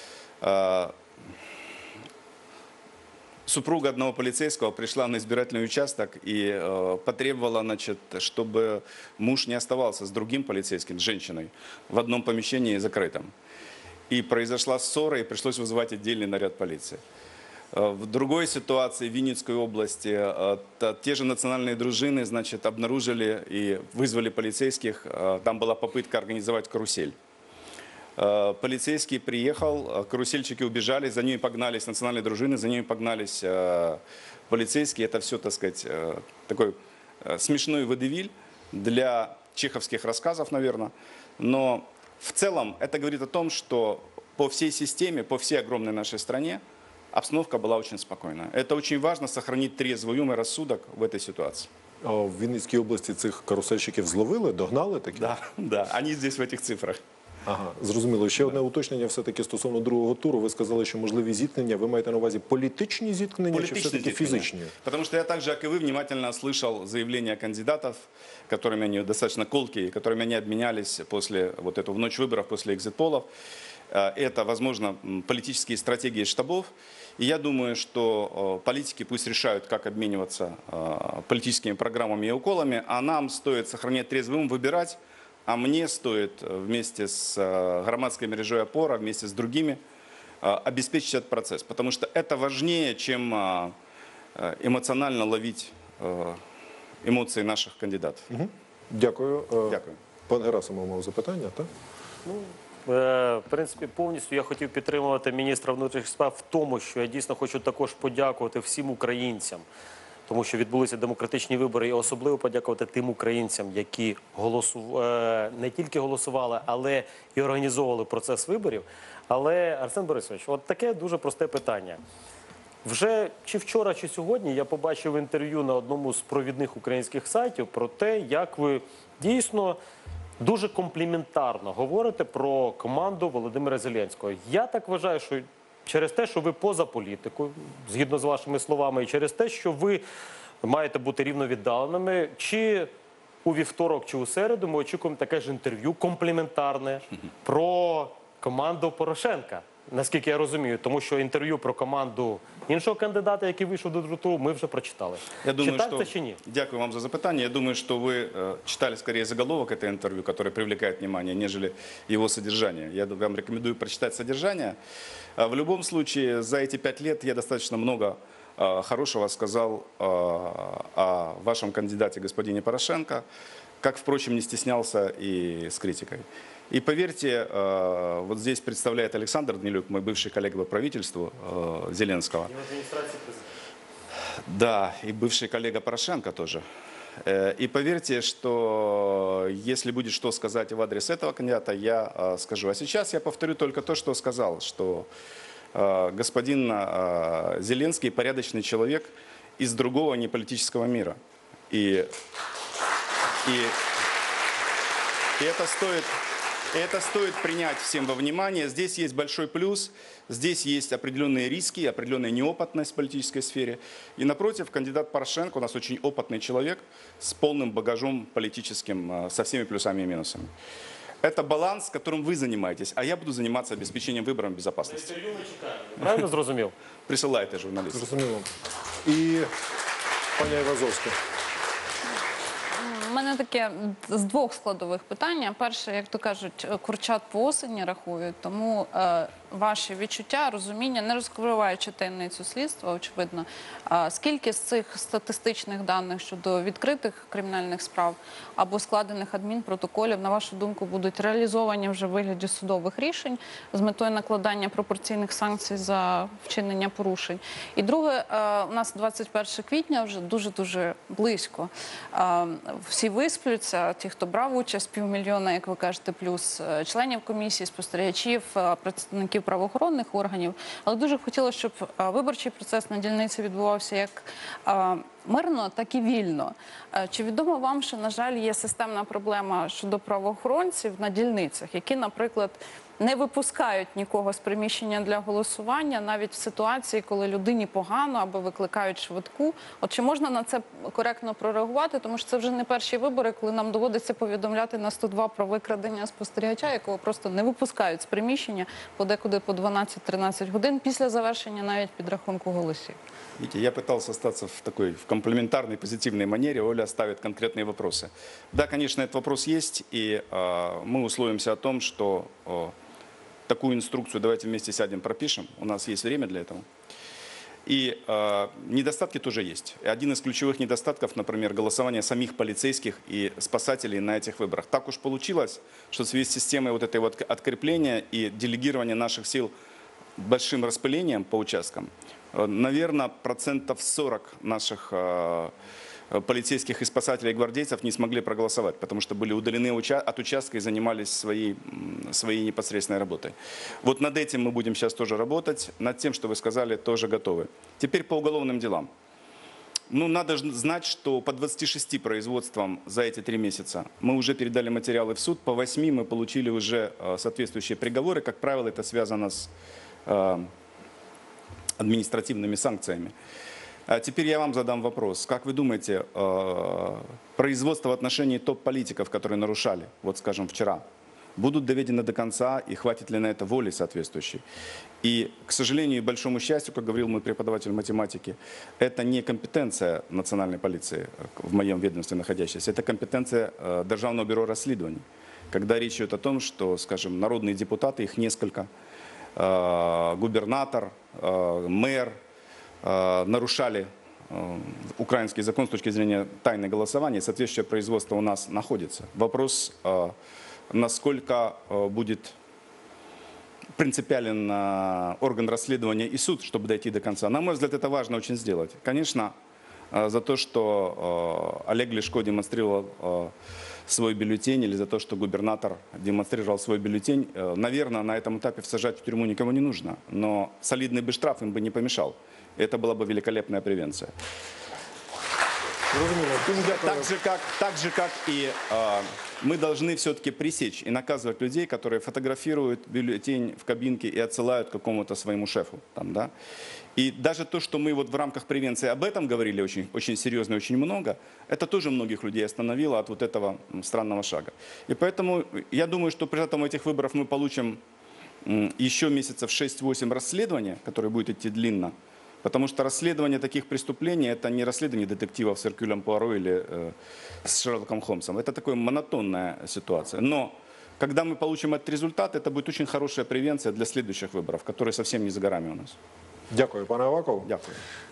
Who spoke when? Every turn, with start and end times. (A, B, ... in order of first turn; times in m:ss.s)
0:00.4-0:00.9 A
0:03.4-0:13.3 A
0:14.1-0:17.0 A
0:17.7-0:27.1 A
0:28.2-0:46.6 A
0:47.1-0:51.7 A
0:52.0-0:55.3 B
0:55.1-0:57.0 A
0:57.4-1:04.7 B
1:03.5-1:13.3 A
1:13.9-1:29.8 A
1:30.4-1:33.7 A
1:34.4-1:36.4 A
1:37.0-1:38.3 A
1:38.3-1:41.7 B
1:39.7-1:40.0 A
1:42.2-1:49.6 C
1:50.3-2:02.0 C
2:02.8-2:09.8 C
2:10.4-2:20.0 C
2:20.6-2:22.9 C
2:23.4-2:36.4 C
2:35.4-2:44.8 A
2:45.4-2:53.2 A
2:53.8-3:02.5 A
3:02.4-3:03.5 C
3:04.5-3:06.6 A
3:07.2-3:15.1 A
3:15.7-3:21.2 A
3:21.7-3:22.1 A
3:23.4-3:23.7 A
3:25.4-3:26.1 A
3:26.7-3:40.5 A
3:41.2-3:45.2 A
3:44.9-3:46.7 C
3:47.1-3:48.0 A
3:47.9-3:48.5 B
3:49.0-3:49.5 B
3:50.4-3:51.1 B
3:52.8-5:03.0 D
5:03.4-5:12.7 A
5:13.5-5:16.6 A
5:17.6-5:29.5 A
5:30.2-5:35.5 A
5:36.1-5:48.9 A
5:49.9-5:59.5 A
6:00.0-6:00.5 A
6:01.8-6:03.1 A
6:03.9-6:10.8 A
6:11.4-6:14.4 A
6:15.0-6:28.7 A
6:29.4-6:32.1 A
6:32.8-6:40.1 A
6:40.7-6:42.3 A
6:43.8-6:49.3 A
6:49.9-6:53.3 A
6:53.9-7:04.1 A
7:05.9-7:07.1 B
7:06.5-7:16.3 A
7:17.0-7:27.8 A
7:28.4-7:36.9 A
7:37.4-7:46.0 A
7:46.5-7:47.5 B
7:47.4-7:47.8 A